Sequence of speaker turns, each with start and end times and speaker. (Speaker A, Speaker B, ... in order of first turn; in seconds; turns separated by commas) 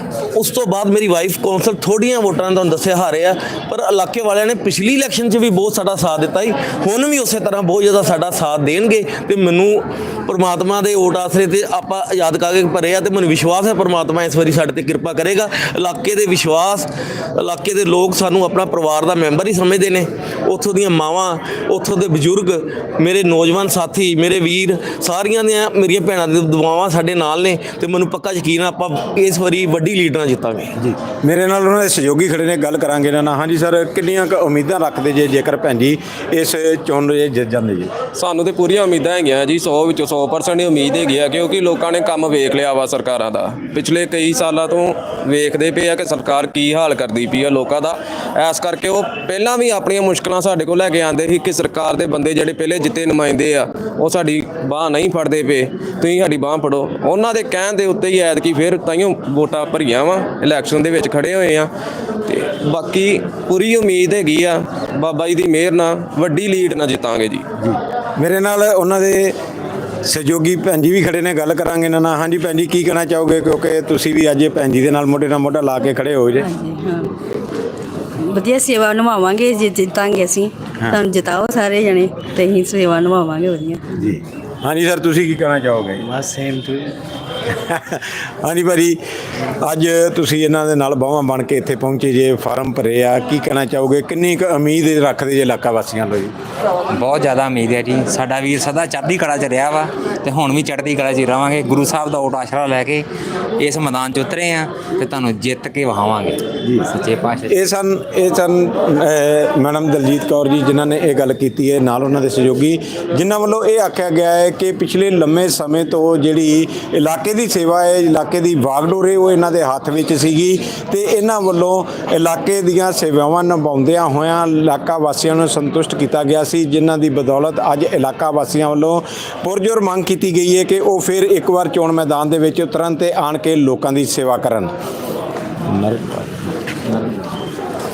Speaker A: 0.3-30.7, Speaker B: 30.8-37.9, Speaker C: 38.1-61.7, Speaker C: 62.2-67.4, Speaker B: 67.6-69.3, Speaker B: 70.0-76.5, Speaker D: 76.4-77.1, Speaker D: 78.2-83.8, Speaker B: 83.9-86.1, Speaker D: 86.2-86.9, Speaker B: 87.5-96.3, Speaker E: 96.9-103.1, Speaker E: 103.6-107.5, Speaker B: 106.6-106.9, Speaker B: 107.5-134.7